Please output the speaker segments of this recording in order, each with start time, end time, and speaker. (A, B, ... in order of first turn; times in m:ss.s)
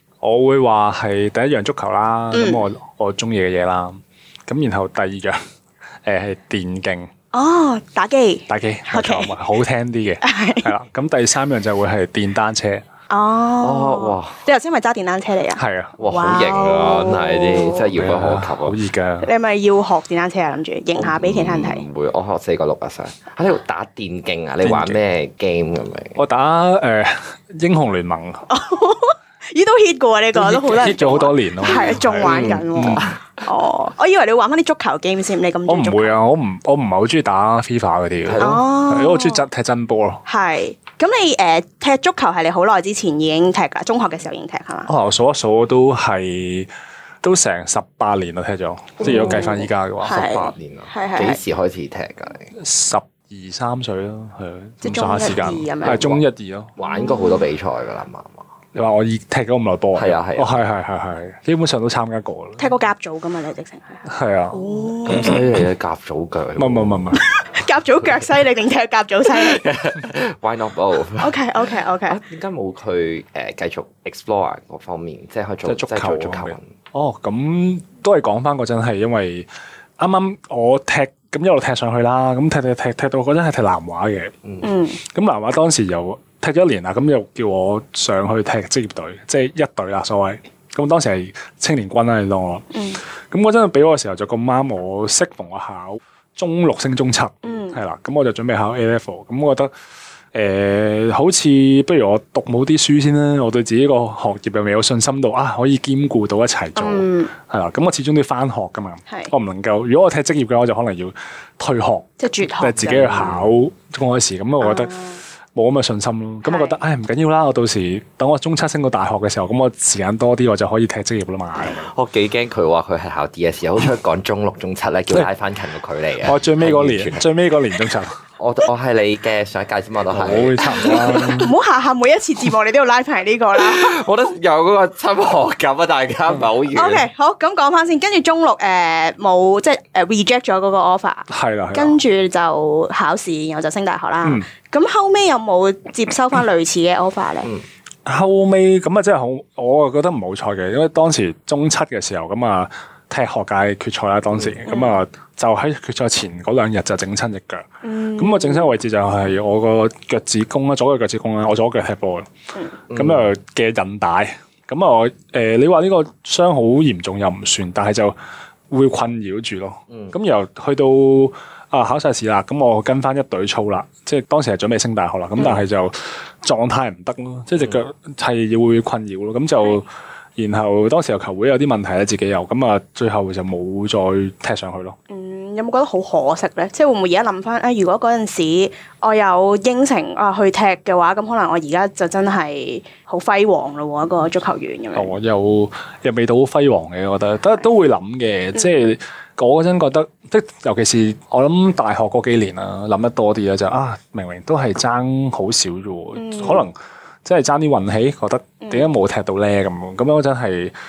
0:00.2-0:05.4 A
0:02.3-0:02.6 B
0:06.0-0:07.1 A
0:07.3-0:09.3 B
0:08.5-0:12.8 A
0:10.2-0:10.7 B
0:13.1-0:17.9 B
0:13.6-0:14.4 C
0:15.6-0:16.0 A
0:16.0-0:18.8 C
0:17.9-0:19.3 A
0:19.2-0:21.8 B
0:20.9-0:26.2 C
0:24.6-0:25.0 A
0:26.2-0:28.4 A
0:28.5-0:36.2 B
0:30.3-0:33.1 A
0:31.6-0:33.0 C
0:35.7-0:40.2 A
0:38.2-0:38.6 C
0:38.4-0:39.4 B
0:40.2-0:44.9 B
0:44.9-0:46.7 A
0:47.2-0:50.5 A
0:49.0-0:51.4 B
0:49.0-0:49.4 C
0:50.4-0:52.5 C
0:52.6-0:56.7 A
0:54.8-0:56.0 B
0:55.8-0:56.2 C
0:56.8-0:58.4 C
0:56.8-0:57.5 B
0:58.7-1:02.7 A
0:59.9-1:00.5 C
1:02.6-1:05.4 B
1:04.0-1:05.6 A
1:05.0-1:07.2 C
1:06.6-1:07.2 A
1:07.1-1:09.6 B
1:09.3-1:11.4 C
1:11.2-1:12.2 B
1:12.0-1:16.6 C
1:15.6-1:19.5 A
1:20.0-1:24.3 A
1:24.4-1:24.7 C
1:24.6-1:25.0 B
1:25.0-1:32.7 A
1:32.7-1:33.0 B
1:33.3-1:39.7 A
1:37.4-1:37.8 B
1:40.3-2:01.9 A
1:46.8-1:47.3 B
1:52.2-1:53.3 B
1:53.1-1:53.5 C
1:54.6-1:55.2 B
1:56.4-1:56.8 B
2:01.6-2:07.2 C
2:06.2-2:08.2 A
2:08.4-2:11.3 C
2:10.1-2:11.5 A
2:10.6-2:14.0 B
2:13.6-2:17.1 C
2:16.7-2:27.5 B
2:21.3-2:22.0 A
2:28.0-2:42.3 A
2:34.7-2:35.0 B
2:37.8-2:38.7 B
2:42.9-2:43.3 C
2:42.9-2:48.2 A
2:48.7-3:05.0 A
3:05.1-3:15.1 B
3:14.9-3:30.7 A
3:26.2-3:26.7 B
3:28.6-3:28.9 B